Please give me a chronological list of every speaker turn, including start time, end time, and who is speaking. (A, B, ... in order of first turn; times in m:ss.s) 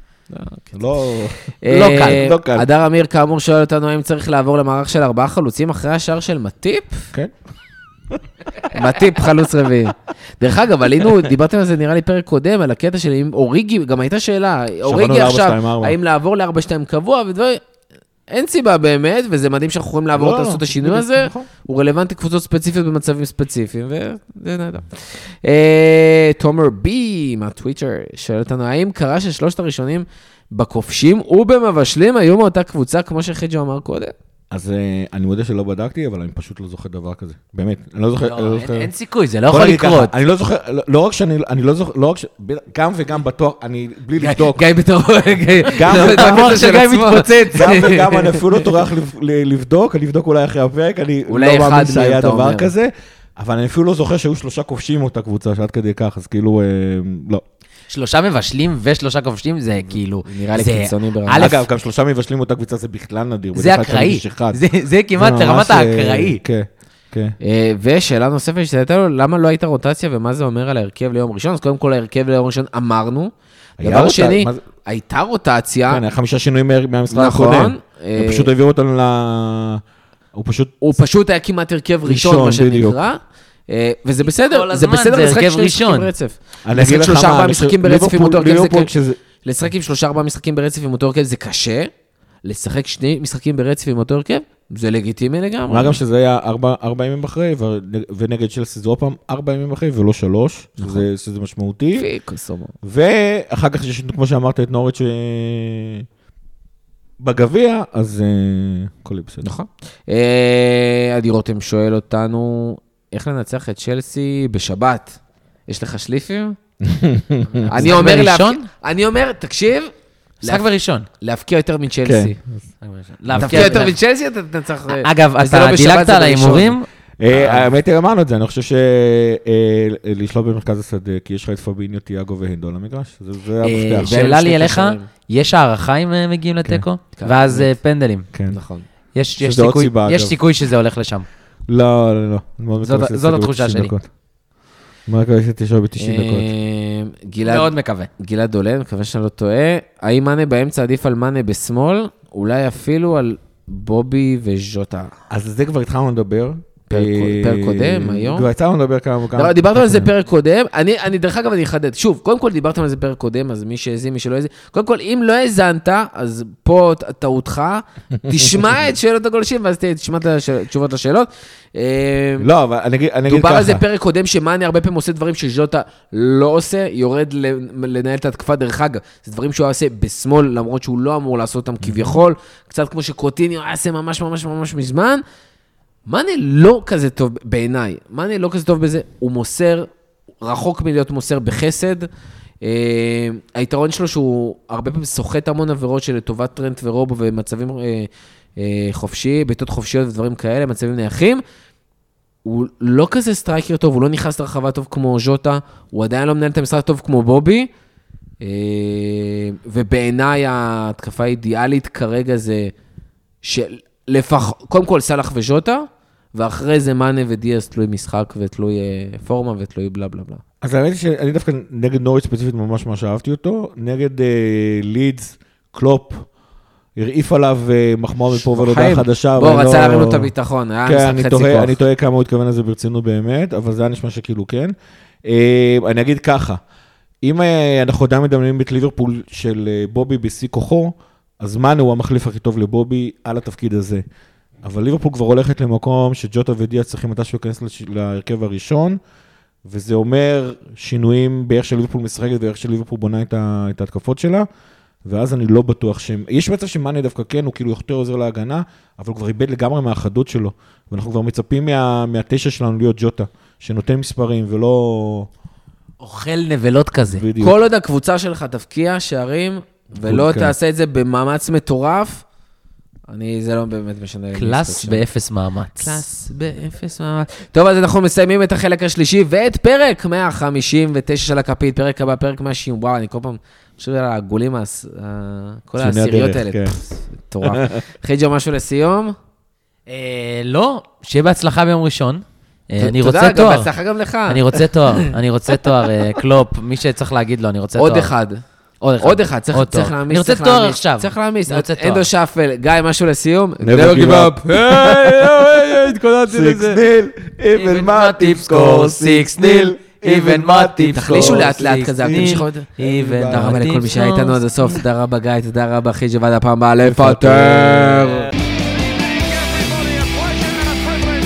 0:00.3-0:00.8 A
0:00.7-0:02.7 B
0:01.6-0:07.1 A
0:01.7-0:02.2 C
0:08.7-0:17.6 A
0:14.8-0:16.0 B
0:18.3-0:34.1 A
0:20.1-0:21.5 B
0:34.5-0:38.9 B
0:38.2-0:40.1 C
0:39.5-0:44.6 B
0:44.2-0:48.6 A
0:45.8-0:46.7 B
0:45.8-0:48.1 C
0:47.5-0:57.4 B
0:51.3-0:52.7 A
0:57.9-1:01.7 C
1:00.2-1:01.5 A
1:01.4-1:04.6 B
1:03.6-1:06.4 C
1:05.2-1:07.4 B
1:07.4-1:16.0 A
1:13.8-1:14.6 B
1:15.9-1:19.8 B
1:17.1-1:18.5 A
1:20.3-1:20.9 B
1:20.8-1:31.9 A
1:22.1-1:23.0 B
1:24.2-1:26.1 C
1:26.6-1:29.2 B
1:32.4-1:36.0 A
1:35.7-1:42.1 B
1:40.8-1:41.1 A
1:41.9-1:42.7 A
1:42.8-1:46.1 B
1:47.2-1:49.5 B
1:49.4-1:56.6 A
1:56.8-1:58.1 B
1:57.6-1:58.6 C
1:57.7-2:00.6 A
2:00.4-2:01.1 C
2:01.2-2:02.4 A
2:02.0-2:02.6 B
2:02.8-2:04.0 C
2:03.3-2:03.9 B
2:03.4-2:07.7 A
2:04.9-2:06.8 C
2:07.2-2:14.2 B
2:13.6-2:18.3 C
2:14.0-2:15.1 A
2:17.2-2:17.7 A
2:18.3-2:18.6 B
2:18.5-2:18.9 A
2:19.2-2:21.3 C
2:19.4-2:20.4 B
2:21.7-2:24.1 B
2:22.8-2:23.9 C
2:25.1-2:26.5 B
2:26.0-2:35.1 A
2:27.4-2:28.1 C
2:35.3-2:40.1 B
2:36.9-2:38.5 A
2:39.4-2:52.5 A
2:52.4-2:53.8 B
2:53.3-3:05.2 A
3:01.8-3:02.2 B
3:06.1-3:09.9 A
3:10.4-3:12.1 A
3:12.6-3:21.4 A
3:22.4-3:27.7 A
3:28.4-3:32.7 A
3:33.4-3:40.4 A
3:40.6-3:46.3 B
3:47.0-3:50.3 B
3:48.3-3:51.8 A
3:50.9-3:54.7 B
3:55.3-3:56.6 B
3:57.2-4:04.0 B
4:04.6-4:09.0 B
4:09.7-4:14.5 B
4:15.0-4:25.3 B
4:26.0-4:27.2 C
4:27.1-4:27.6 B
4:27.4-4:32.2 A
4:30.0-4:30.5 B
4:33.1-4:35.1 A
4:34.3-4:36.0 C
4:35.8-4:49.2 A
4:45.8-4:46.8 B
4:49.9-4:53.7 C
4:52.8-4:55.2 A
4:54.3-4:58.1 C
4:57.8-4:58.4 A
4:58.8-5:02.1 C
4:59.0-5:06.8 A
5:03.6-5:13.7 B
5:07.6-5:14.8 C
5:11.0-5:18.3 A
5:16.8-5:18.2 B